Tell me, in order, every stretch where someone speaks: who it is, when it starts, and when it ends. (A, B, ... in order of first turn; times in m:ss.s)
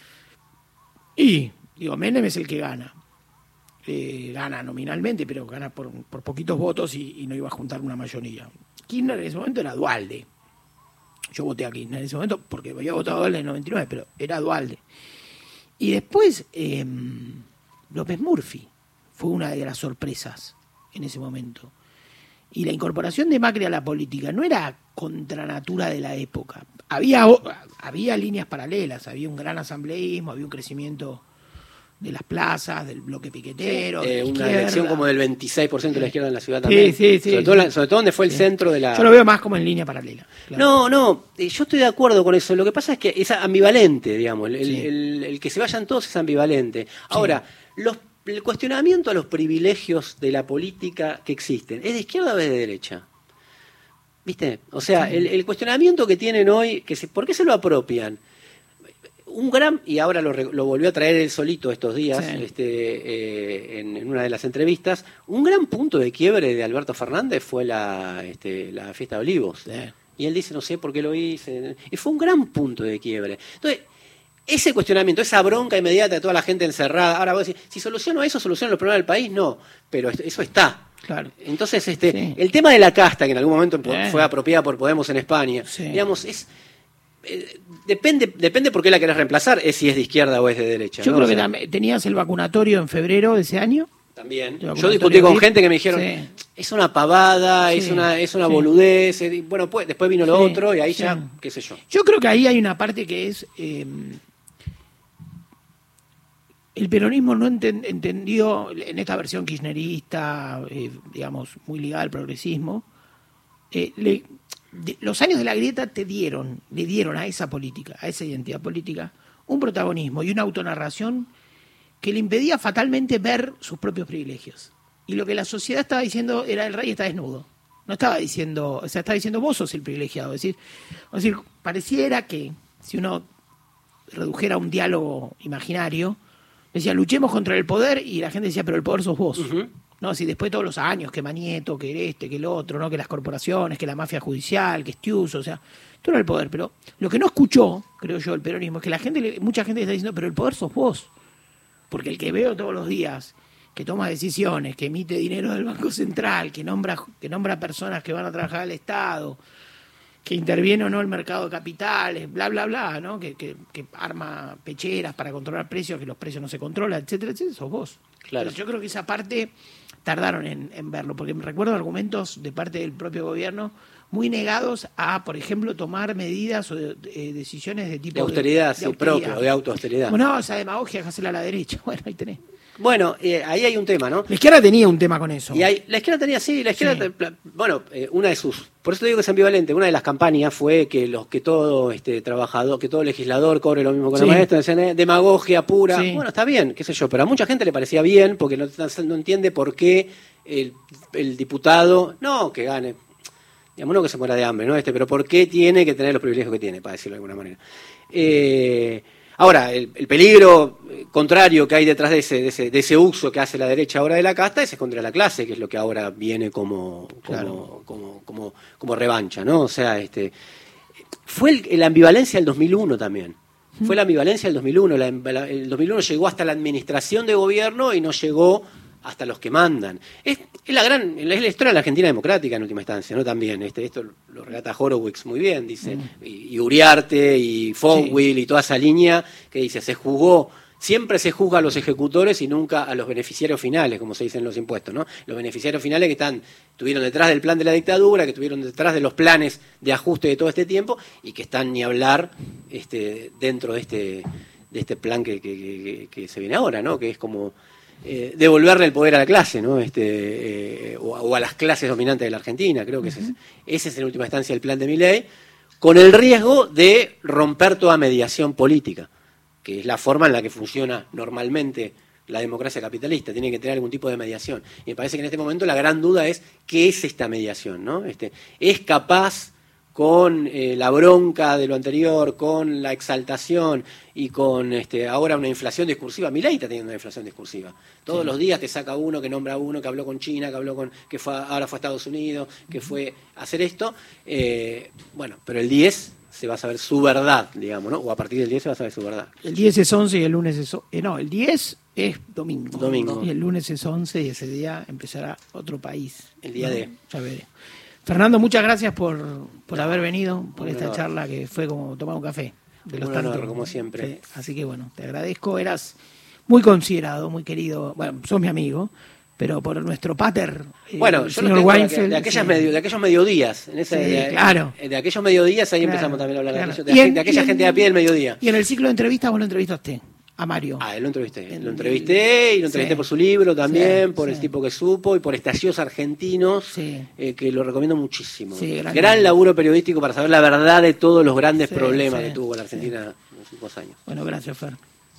0:01.2-0:02.9 A
0:03.8-0:10.2 A
0:11.3-0:14.8 A
0:15.8-0:21.7 A
0:22.5-0:31.2 A
0:32.0-0:35.0 A
0:33.7-0:39.1 B
0:36.6-0:37.7 A
0:38.3-0:40.6 A
0:40.6-0:53.0 B
0:47.1-0:47.4 A
0:54.2-0:58.2 B
0:55.0-0:55.2 A
0:59.3-1:13.8 B
1:02.1-1:02.4 A
1:09.7-1:09.9 A
1:14.5-1:20.8 B
1:21.0-1:21.3 A
1:21.4-1:26.5 B
1:22.1-1:22.4 A
1:23.8-1:24.3 A
1:25.7-1:26.0 A
1:27.2-1:31.5 B
1:31.0-1:33.9 A
1:34.2-1:41.8 B
1:34.6-1:36.3 A
1:37.7-1:38.7 A
1:40.3-1:41.3 A
1:41.9-1:44.2 A
1:46.7-1:52.8 A
1:53.7-2:01.3 A
2:02.0-2:10.6 A
2:11.1-2:13.3 A
2:14.1-2:16.2 A
2:16.7-2:19.5 A
2:19.4-2:19.7 B
2:20.0-2:31.1 A
2:31.9-2:39.4 A
2:40.2-2:49.5 A
2:48.3-2:48.5 B
2:50.0-2:59.4 A
2:58.1-3:00.2 B
3:00.1-3:02.4 A
3:02.8-3:04.3 B
3:04.3-3:05.6 A
3:05.5-3:23.0 B
3:06.8-3:07.1 A
3:14.1-3:14.4 A
3:15.9-3:16.2 A
3:23.8-3:27.6 B
3:28.1-3:40.3 B
3:37.3-3:37.6 A
3:41.2-4:17.5 B
3:55.8-3:56.1 A
4:18.0-4:25.2 B
4:23.0-4:23.3 A
4:25.8-4:29.1 B
4:29.6-4:59.3 B
4:59.4-5:07.5 A
5:02.7-5:03.2 B
5:06.4-5:06.9 B
5:08.0-5:16.0 A
5:10.6-5:11.0 B
5:12.9-5:14.1 B
5:16.5-5:22.7 A
5:21.0-5:28.4 B
5:23.9-5:24.7 A
5:25.8-5:27.8 A
5:28.4-5:30.8 A
5:30.8-5:44.0 B
5:31.5-5:32.2 A
5:32.7-5:33.0 A
5:33.6-5:34.5 A
5:36.7-5:37.1 A
5:38.5-5:39.3 A
5:41.7-5:42.9 A
5:44.1-5:44.8 A